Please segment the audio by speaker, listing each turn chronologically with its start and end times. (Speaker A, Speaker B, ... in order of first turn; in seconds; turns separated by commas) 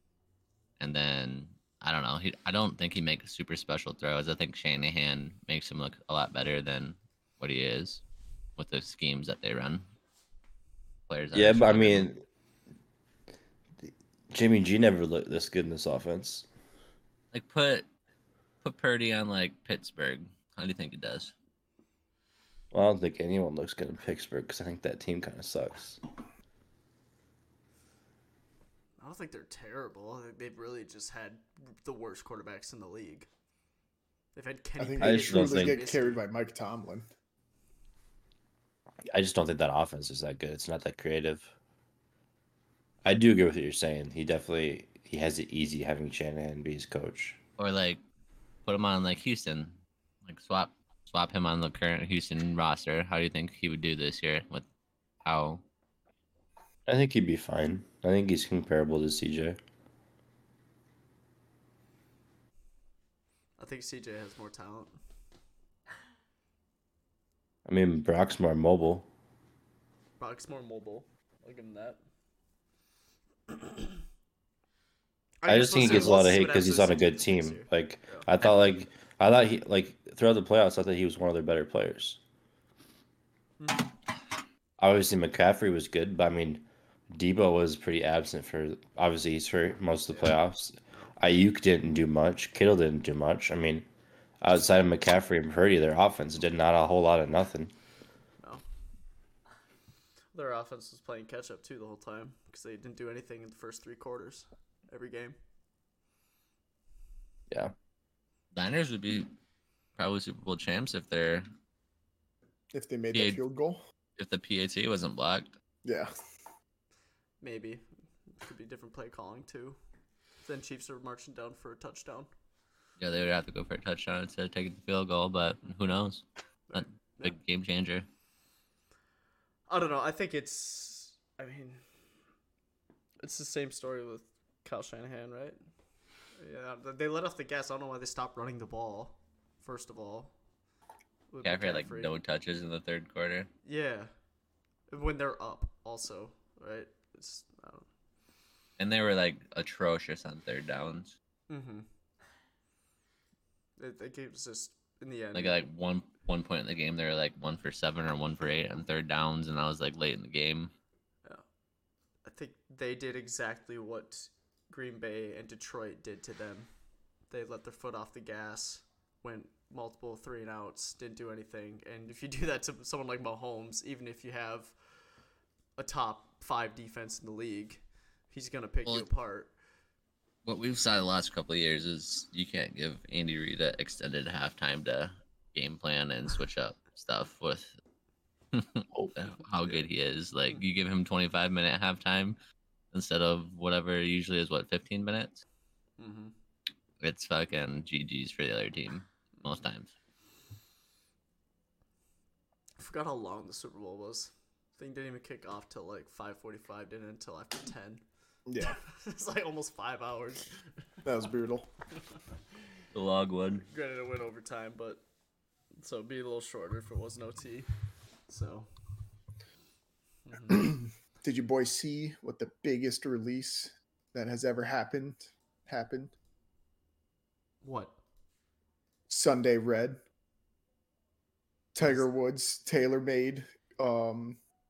Speaker A: 0.8-8.0, Speaker A: 8.6-9.8, Speaker A: 11.1-12.1, Speaker B: 11.3-12.2, Speaker B: 13.8-16.5, Speaker A: 17.3-17.9, Speaker A: 18.6-21.3, Speaker B: 22.7-26.0, Speaker C: 29.0-33.3, Speaker C: 34.4-36.2, Speaker D: 34.8-37.1, Speaker B: 35.0-35.8, Speaker B: 39.1-41.5, Speaker B: 43.0-47.4, Speaker A: 47.6-48.0, Speaker A: 48.6-54.7, Speaker A: 55.2-55.6, Speaker B: 56.9-59.6, Speaker C: 63.6-65.0, Speaker B: 67.7-69.1, Speaker C: 70.2-72.0, Speaker C: 73.5-73.9, Speaker C: 75.4-78.3, Speaker B: 75.5-82.2, Speaker C: 83.6-83.9, Speaker B: 84.8-93.9, Speaker B: 94.4-97.7, Speaker C: 100.3-105.4, Speaker A: 108.5-109.3, Speaker A: 110.0-111.5, Speaker D: 112.7-113.8, Speaker A: 113.1-113.4, Speaker A: 114.2-115.5, Speaker D: 115.8-116.1, Speaker C: 117.4-119.8, Speaker C: 120.4-122.3, Speaker A: 123.0-128.1, Speaker C: 126.7-127.4, Speaker C: 129.7-131.8, Speaker C: 133.2-135.6, Speaker C: 136.4-140.3, Speaker C: 141.3-142.2, Speaker A: 141.4-143.5, Speaker C: 143.7-144.1, Speaker C: 144.9-147.9, Speaker A: 148.8-151.2, Speaker C: 151.5-151.9, Speaker C: 153.8-155.6, Speaker A: 155.3-160.7, Speaker C: 162.2-166.7, Speaker C: 167.3-174.7, Speaker C: 175.8-179.5, Speaker A: 180.4-187.8, Speaker A: 188.5-192.4, Speaker A: 192.9-195.4, Speaker C: 196.0-196.3, Speaker A: 197.0-199.9, Speaker C: 202.8-208.0, Speaker D: 208.5-208.8, Speaker C: 208.6-210.6, Speaker D: 211.1-211.7, Speaker A: 212.9-213.7, Speaker C: 213.7-215.0, Speaker C: 215.8-217.7, Speaker C: 218.3-218.7, Speaker C: 220.3-220.8, Speaker D: 220.5-226.1, Speaker C: 227.6-228.0, Speaker D: 229.1-230.0, Speaker D: 231.8-234.4